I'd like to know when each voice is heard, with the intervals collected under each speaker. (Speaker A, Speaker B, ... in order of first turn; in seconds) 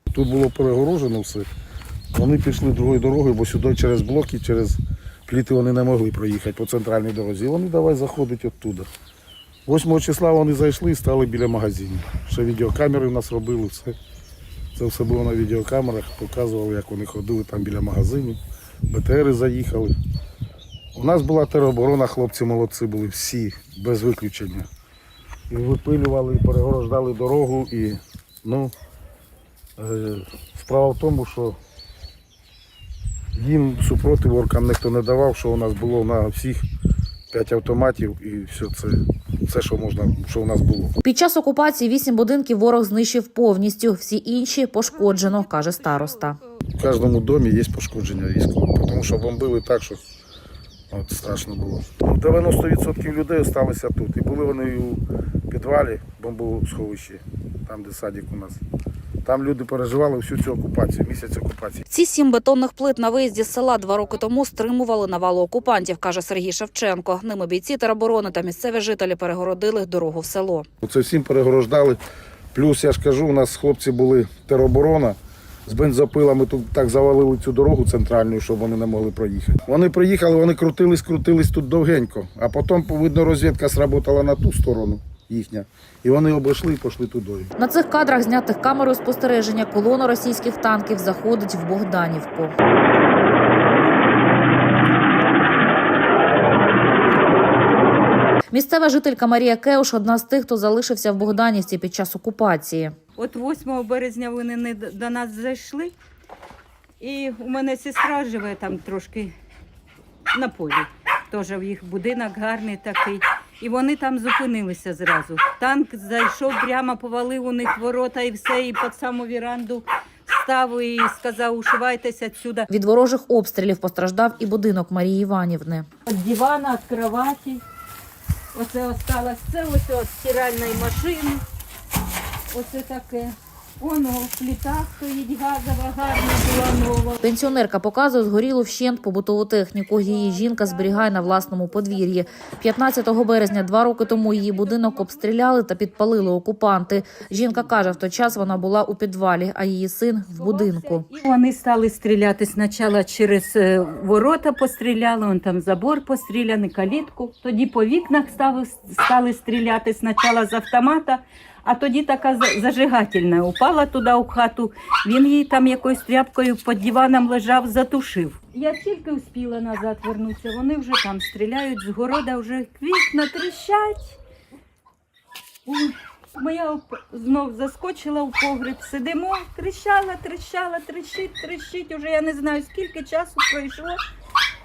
Speaker A: 0.1-1.5, 2.1-8.9, 9.7-13.9, 14.7-18.4, 18.9-19.9, 20.9-24.7, 25.5-28.7, 29.8-31.6, 33.3-36.6, 37.3-41.0, 46.8-50.0, 50.9-58.6, 59.2-61.8, 70.8-72.0, 72.5-87.5
Speaker B: 41.0-46.4, 61.9-70.7, 87.6-92.5, 98.5-102.9, 122.7-125.8, 137.2-151.1
Speaker C: 44.9-46.3, 103.2-105.9, 107.0-109.3, 110.3-122.7, 126.0-127.6, 128.5-131.4, 132.5-137.2, 150.3-174.2, 175.7-184.0